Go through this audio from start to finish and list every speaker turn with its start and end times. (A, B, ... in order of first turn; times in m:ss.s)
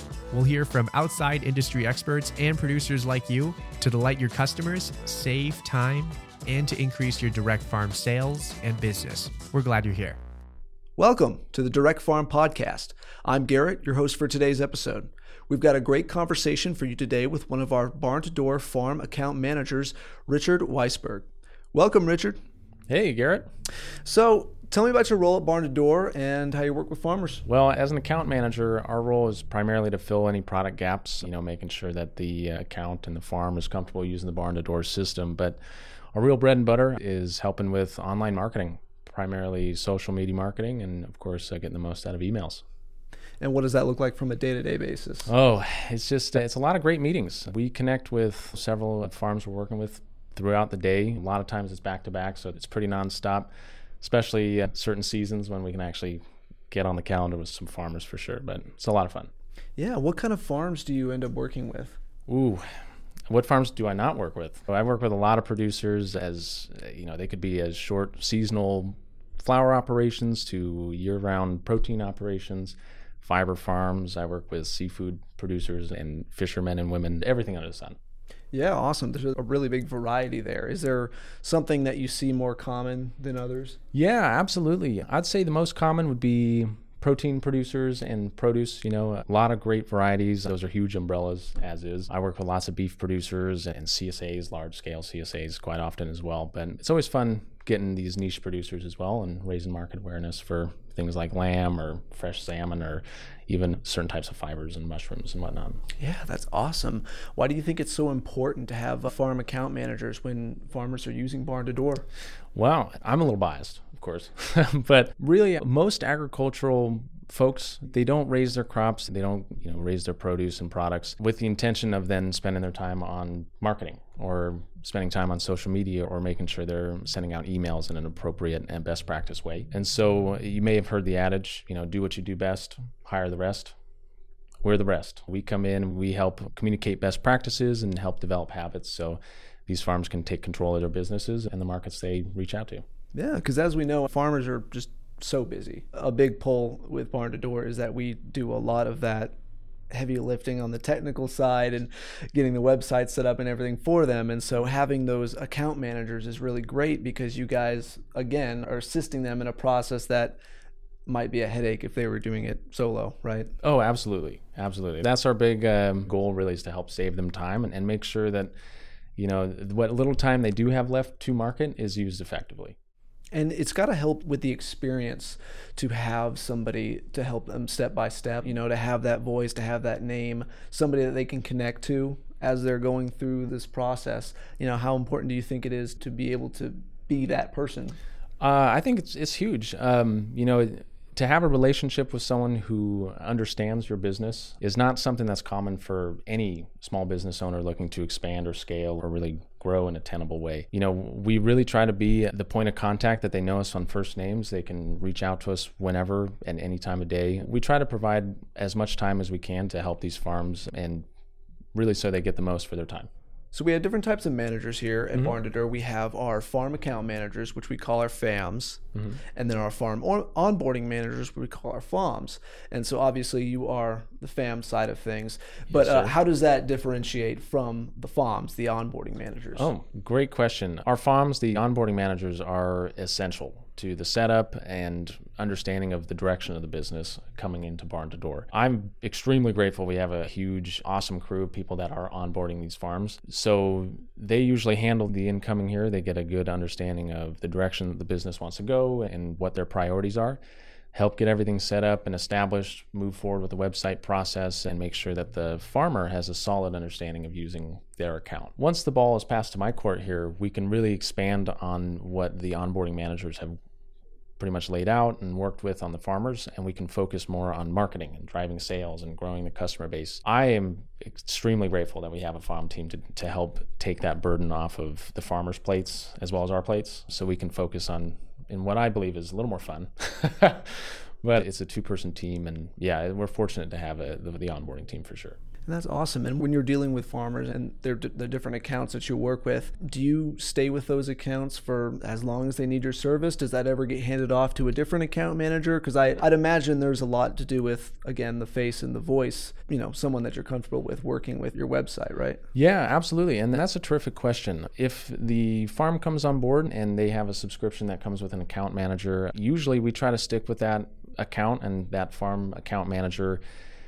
0:00.3-0:10.2 A
0:11.0-0:22.4 B
0:22.9-0:23.5 C
0:24.0-0:27.4 B
0:27.5-0:35.6 C
0:36.1-0:42.6 C
0:43.4-0:45.3 B
0:45.3-0:53.5 C
0:54.0-0:59.3 C
0:59.8-1:02.0 B
1:02.3-1:02.6 C
1:03.3-1:18.0 C
1:18.5-1:23.8 B
1:23.9-1:45.8 C
1:46.0-1:52.1 B
1:52.6-2:13.8 C
2:14.6-2:22.8 C
2:23.1-2:29.4 B
2:29.9-2:40.4 B
2:41.1-2:43.5 B
2:43.6-2:48.5 C
2:49.2-2:52.8 C
2:53.3-3:08.0 B
3:08.4-3:31.0 C
3:31.8-3:33.1 C
3:33.5-3:38.8 B
3:39.0-3:39.2 C
3:39.4-3:49.7 B
3:45.7-3:46.2 C
3:49.6-4:10.4 C
4:10.9-4:23.6 C
4:24.4-4:45.4 C
4:45.7-5:02.4 B
5:02.5-5:13.4 C